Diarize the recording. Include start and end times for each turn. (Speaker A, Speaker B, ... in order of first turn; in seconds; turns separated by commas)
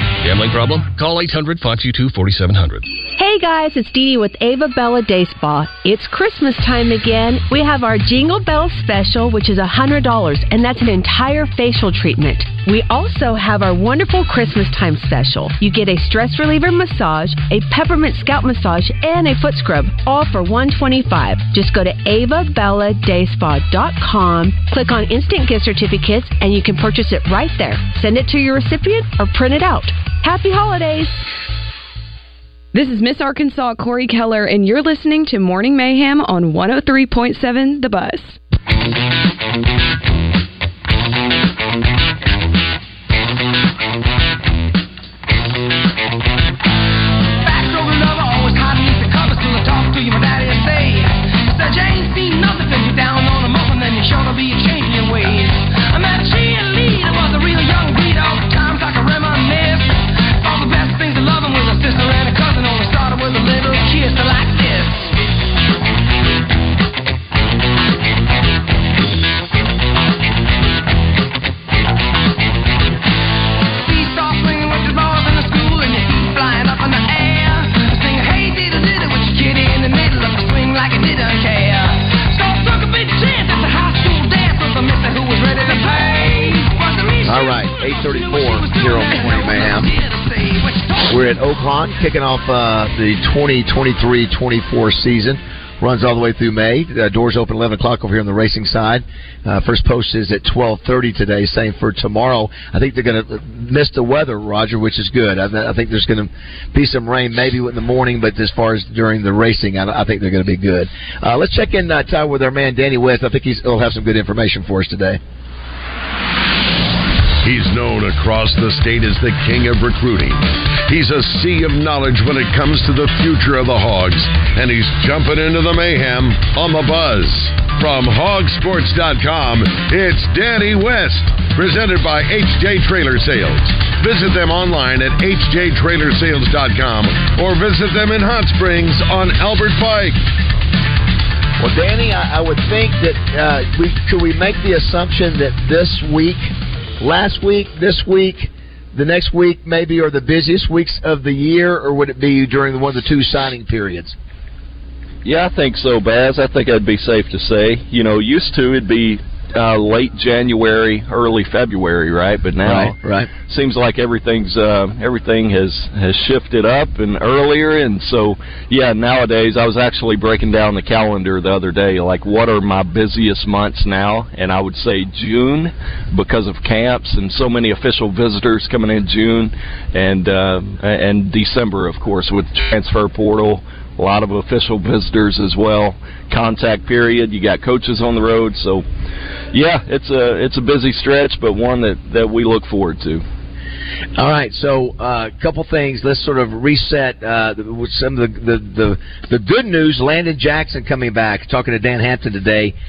Speaker A: 0.2-2.9, Speaker B: 3.1-31.2, Speaker C: 32.7-38.4, Speaker D: 47.4-65.1, Speaker D: 73.7-91.3, Speaker E: 87.2-89.9, Speaker E: 91.1-115.2, Speaker F: 117.4-140.2, Speaker E: 141.6-154.1, Speaker G: 155.2-188.8, Speaker E: 162.6-163.3, Speaker G: 189.5-193.2, Speaker E: 194.2-202.7